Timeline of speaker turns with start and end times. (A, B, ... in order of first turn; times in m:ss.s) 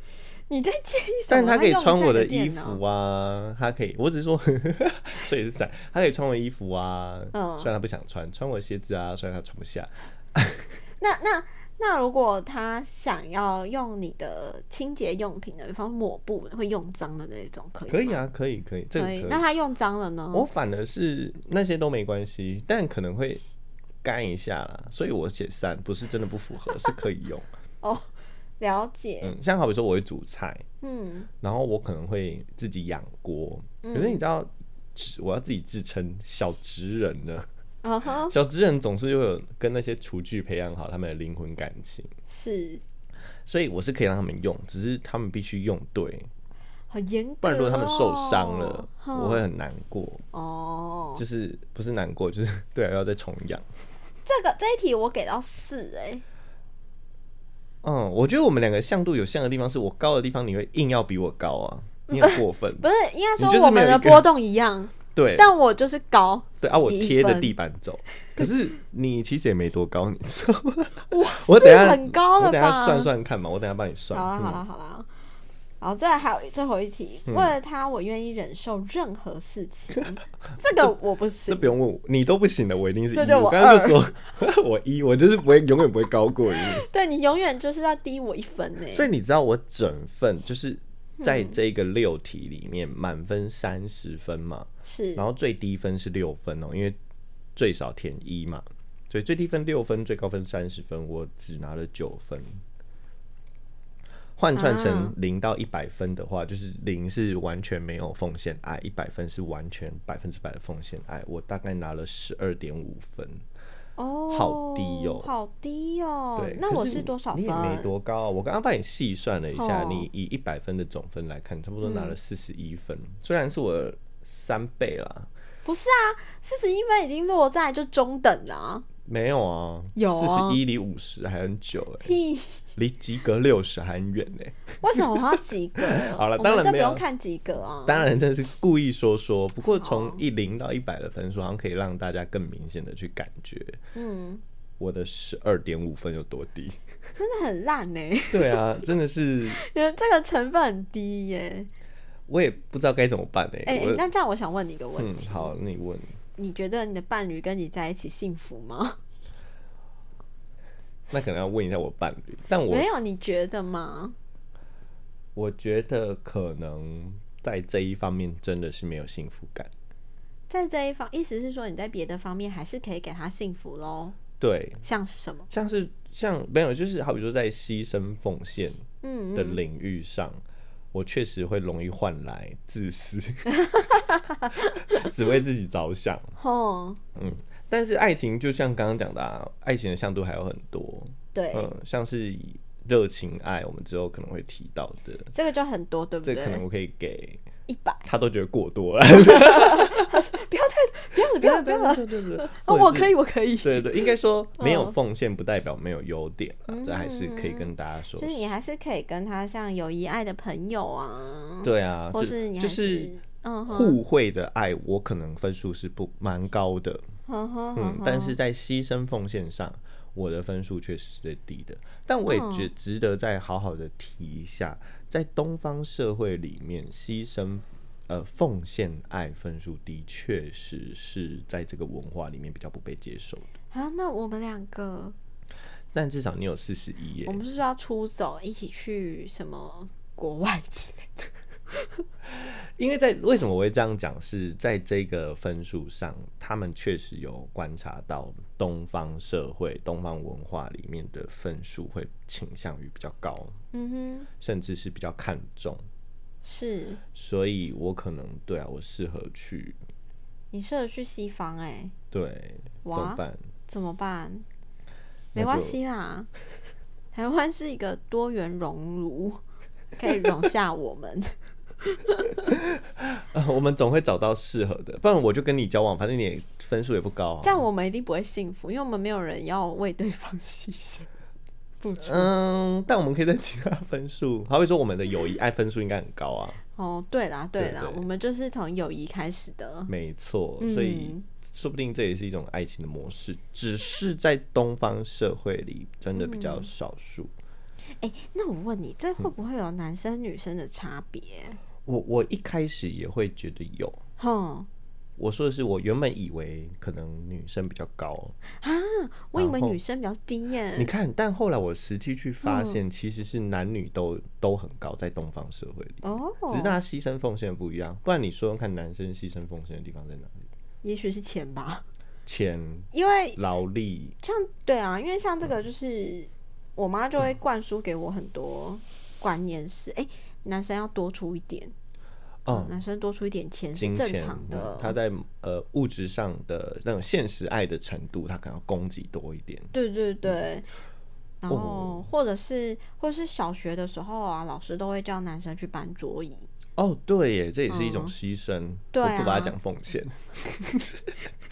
0:00.5-0:02.8 A
0:01.3-0:10.7 B
0:07.3-0:07.7 A
0:11.0-0:18.2 A
0:17.9-0:19.4 B
0:19.0-0:20.5 A
0:20.3-0:23.4 B
0:24.0-0:27.5 B
0:27.8-0:28.1 A
0:28.6-0:29.3 A
0:29.2-0:30.6 B
0:30.8-0:31.3 A
0:31.4-0:37.5 B
0:33.8-0:34.2 A
0:37.8-0:38.3 A
0:38.2-0:42.1 B
0:42.3-0:42.8 A
0:43.5-0:46.3 B
0:46.9-0:49.4 A
0:47.4-0:50.2 B
0:50.3-0:51.2 A
0:51.2-0:53.6 B
0:54.3-0:56.2 A
0:57.8-1:02.9 B
1:02.1-1:07.6 A
1:03.4-1:04.3 B
1:05.2-1:05.5 B
1:06.6-1:14.6 B
1:11.1-1:13.1 A
1:14.1-1:15.1 A
1:15.8-1:21.7 A
1:17.3-1:17.5 B
1:21.5-1:26.9 B
1:23.1-1:24.0 A
1:26.6-1:29.1 A
1:28.9-1:37.0 B
1:31.2-1:31.6 A
1:34.9-1:35.2 A
1:37.6-1:42.6 B
1:44.4-1:53.4 B
1:44.6-1:45.2 A
1:54.0-1:57.9 A
1:54.3-1:55.3 B
1:56.4-2:05.3 B
1:59.5-2:00.1 A
2:01.8-2:02.2 A
2:05.6-2:08.9 A
2:09.0-2:12.2 B
2:10.0-2:10.6 A
2:12.0-2:12.6 A
2:12.8-2:15.1 B
2:14.8-2:18.1 A
2:15.8-2:17.0 B
2:17.9-2:23.8 B
2:19.8-2:20.2 A
2:24.0-2:24.4 A
2:24.8-2:26.8 B
2:27.2-2:28.6 A
2:28.3-2:29.6 B
2:29.5-2:31.7 A
2:32.3-2:34.1 B
2:33.7-2:35.5 A
2:35.0-2:36.2 B
2:36.4-2:39.0 A
2:41.1-2:42.9 B
2:42.7-2:44.2 A
2:45.4-2:49.7 B
2:50.5-2:54.2 A
2:54.4-2:54.8 B
2:54.8-2:55.5 A
2:55.5-3:00.4 B
2:59.0-2:59.6 A
3:00.9-3:04.1 B
3:03.6-3:04.8 A
3:04.8-3:06.4 B
3:06.4-3:07.0 A
3:07.2-3:15.3 B
3:11.3-3:11.7 A
3:15.3-3:16.6 A
3:16.2-3:17.4 B
3:17.7-3:18.0 A
3:18.0-3:20.2 B
3:19.2-3:25.0 A
3:21.2-3:28.4 B
3:26.7-3:34.0 A
3:31.6-3:33.1 B
3:33.7-3:37.0 B
3:37.3-3:38.4 A
3:37.8-3:53.5 B
3:42.3-3:42.7 A
3:53.7-3:55.2 A
3:55.9-3:57.4 B
3:57.3-4:01.3 A
4:02.3-4:13.6 B
4:13.7-4:14.3 A
4:14.4-4:15.8 B
4:16.4-4:17.0 A
4:17.1-4:19.8 B
4:20.5-4:21.9 A
4:22.1-4:23.4 B
4:22.8-4:24.4 A
4:25.3-4:25.8 B
4:25.4-4:26.3 A
4:27.1-4:29.4 A
4:30.0-4:32.3 A
4:32.4-4:37.6 B
4:37.4-4:41.1 A
4:41.8-4:42.3 A
4:42.0-4:46.6 B
4:46.8-4:49.9 A
4:47.6-4:48.0 B
4:49.9-4:57.3 B
4:50.6-4:51.2 A
4:56.2-4:56.7 A
4:58.0-5:01.6 A
5:01.8-5:04.0 B
5:04.2-5:04.7 A
5:05.2-5:08.4 B
5:08.6-5:10.9 A
5:09.4-5:09.8 B
5:10.8-5:20.5 B
5:12.4-5:12.8 A
5:16.0-5:16.8 A
5:20.8-5:21.8 A
5:22.3-5:24.2 B
5:22.9-5:23.4 A
5:24.2-5:31.7 A
5:32.4-5:32.8 B
5:32.5-5:35.0 A
5:33.7-5:39.7 B
5:39.7-5:40.7 A
5:41.4-5:46.5 A
5:41.5-5:42.1 B
5:46.8-5:51.1 B
5:47.7-5:48.1 A
5:48.9-5:49.6 A